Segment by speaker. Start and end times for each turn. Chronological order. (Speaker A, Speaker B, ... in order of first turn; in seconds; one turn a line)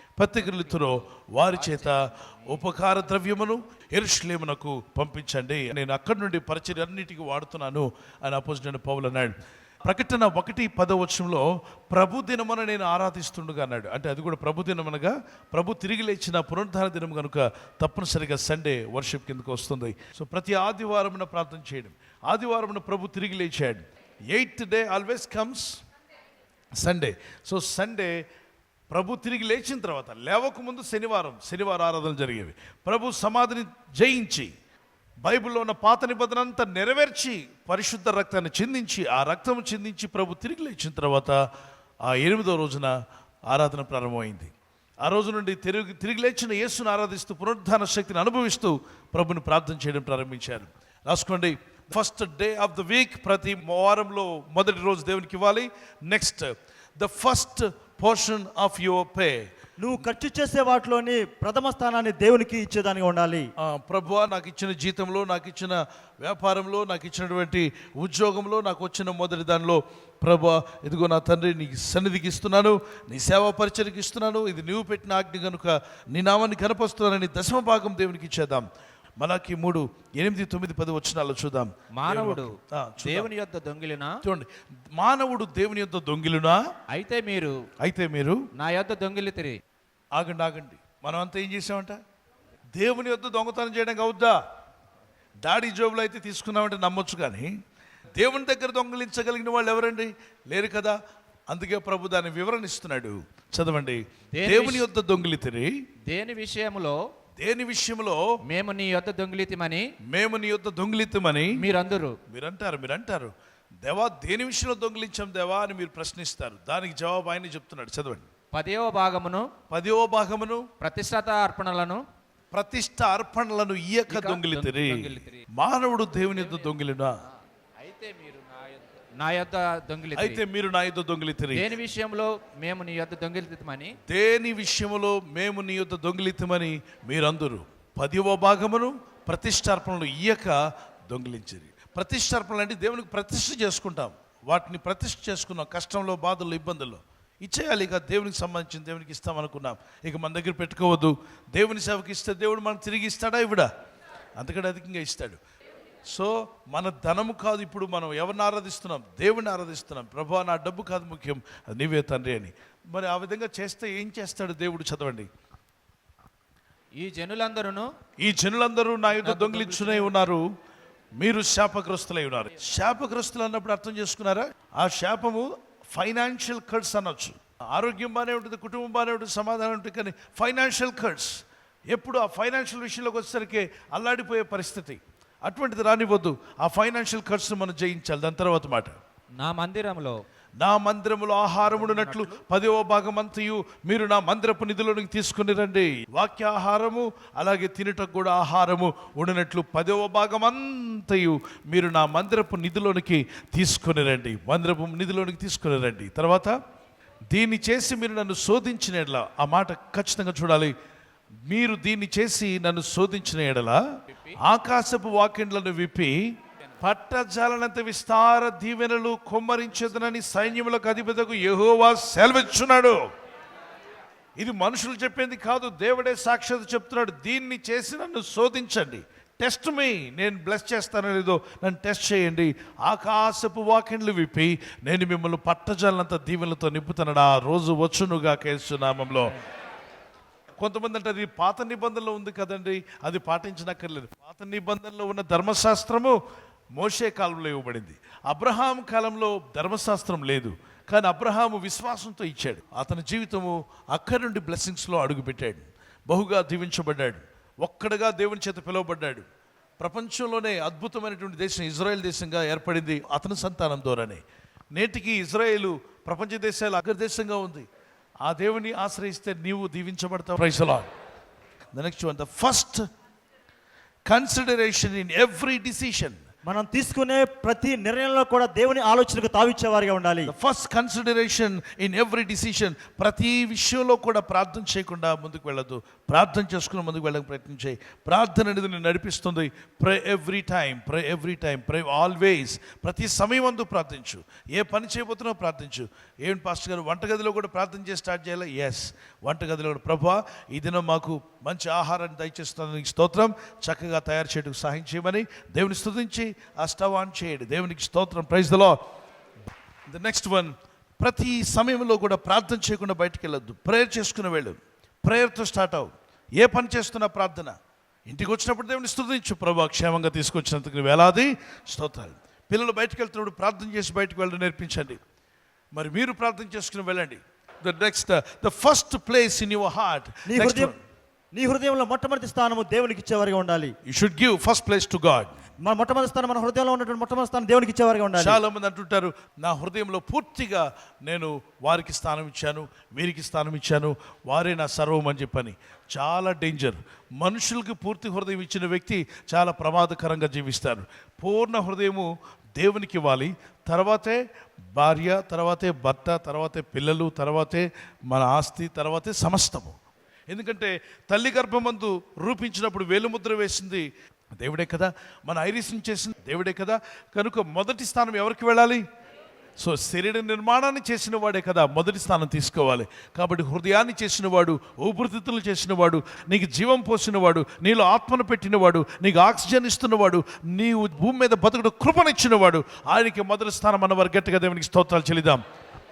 Speaker A: 0.2-25.8
Speaker B: 1.5-2.6
Speaker A: 26.8-28.2
Speaker A: 28.9-34.5
Speaker A: 35.2-41.4
Speaker A: 42.0-43.0
Speaker A: 43.5-44.5
Speaker A: 45.0-59.5
Speaker C: 59.8-63.5
Speaker A: 63.6-78.7
Speaker A: 79.2-83.3
Speaker B: 82.0-84.2
Speaker A: 84.2-86.6
Speaker B: 86.9-87.5
Speaker A: 87.8-88.5
Speaker B: 88.6-89.6
Speaker A: 90.1-92.0
Speaker A: 92.8-94.4
Speaker A: 95.4-97.6
Speaker A: 98.1-101.0
Speaker A: 101.5-105.8
Speaker B: 104.3-104.8
Speaker B: 106.1-107.0
Speaker A: 107.4-108.2
Speaker B: 108.5-109.8
Speaker A: 110.1-111.6
Speaker B: 111.6-112.2
Speaker A: 112.3-118.3
Speaker B: 118.5-119.5
Speaker A: 119.7-120.7
Speaker B: 120.8-122.0
Speaker A: 122.5-127.2
Speaker B: 124.1-125.5
Speaker B: 126.3-126.7
Speaker B: 127.8-130.4
Speaker A: 130.1-131.7
Speaker B: 131.5-133.9
Speaker A: 134.1-153.7
Speaker A: 154.4-155.4
Speaker A: 156.1-165.3
Speaker B: 167.0-167.9
Speaker A: 168.2-170.5
Speaker B: 169.1-170.2
Speaker A: 171.2-189.0
Speaker B: 189.4-190.2
Speaker A: 190.6-206.6
Speaker B: 191.7-192.4
Speaker A: 207.3-210.7
Speaker A: 211.5-213.8
Speaker A: 214.4-216.2
Speaker A: 216.8-223.0
Speaker A: 224.4-239.3
Speaker A: 240.6-246.2
Speaker A: 246.8-259.3
Speaker A: 259.8-267.7
Speaker A: 268.2-270.9
Speaker A: 271.7-272.9
Speaker A: 274.1-276.2
Speaker C: 276.5-280.3
Speaker A: 280.3-308.8
Speaker A: 309.9-317.6
Speaker A: 318.1-325.0
Speaker A: 325.7-330.8
Speaker C: 330.3-330.7
Speaker C: 331.3-333.7
Speaker A: 333.9-335.3
Speaker C: 335.6-338.4
Speaker A: 338.2-354.2
Speaker A: 354.7-359.8
Speaker A: 360.3-368.9
Speaker A: 369.6-385.4